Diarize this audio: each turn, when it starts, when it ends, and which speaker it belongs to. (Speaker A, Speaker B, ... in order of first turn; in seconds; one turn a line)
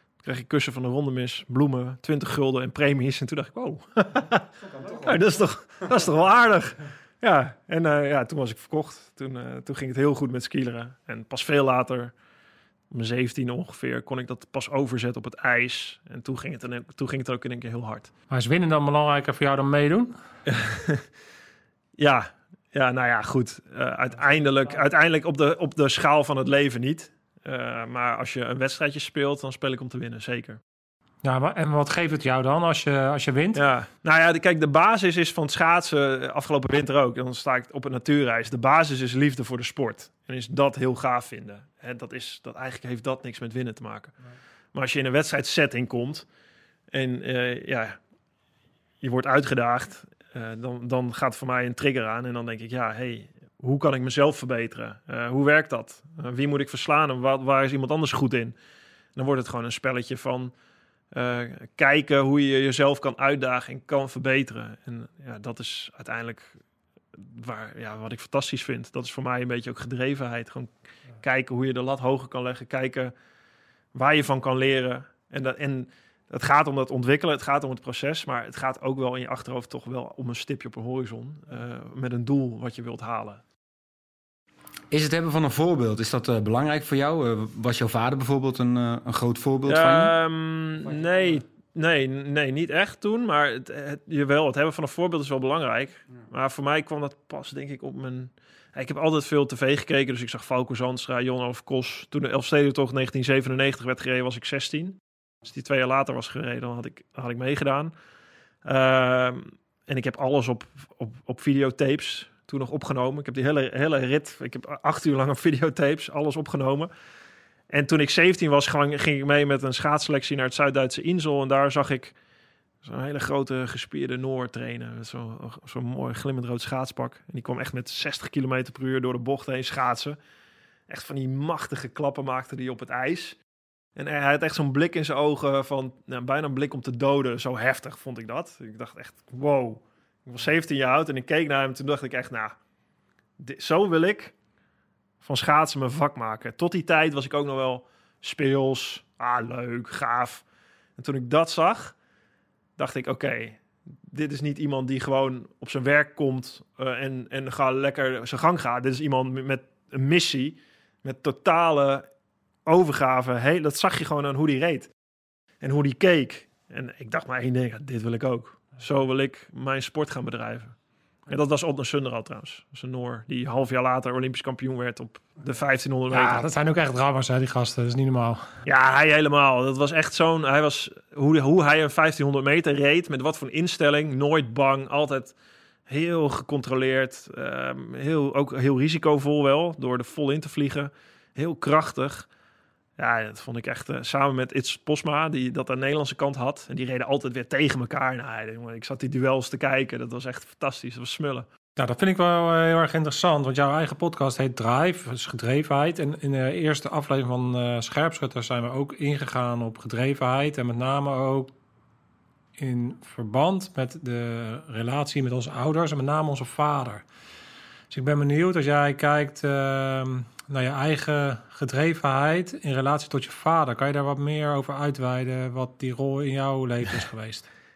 Speaker A: 0.2-12.1
Speaker A: 12.9-18.1
Speaker B: 18.3-20.1
Speaker A: 20.5-21.1
Speaker A: 22.0-30.6
Speaker B: 31.2-33.6
Speaker A: 33.5-44.1
Speaker A: 44.7-46.3
Speaker A: 46.9-48.0
Speaker A: 49.0-58.5
Speaker A: 59.2-60.5
Speaker A: 61.1-66.6
Speaker A: 67.2-73.1
Speaker A: 73.9-83.4
Speaker C: 84.9-90.2
Speaker A: 89.7-107.9
Speaker A: 108.7-116.9
Speaker A: 117.7-122.1
Speaker A: 122.8-130.2
Speaker A: 130.9-133.4
Speaker A: 134.0-142.6
Speaker A: 143.4-144.3
Speaker A: 145.2-150.4
Speaker A: 151.0-151.9
Speaker A: 152.8-162.1
Speaker A: 162.7-164.9
Speaker A: 165.6-170.7
Speaker A: 171.3-176.4
Speaker B: 176.1-178.5
Speaker A: 178.7-185.3
Speaker A: 185.9-192.3
Speaker A: 193.0-201.5
Speaker B: 201.8-211.5
Speaker B: 212.6-217.0
Speaker B: 217.9-227.5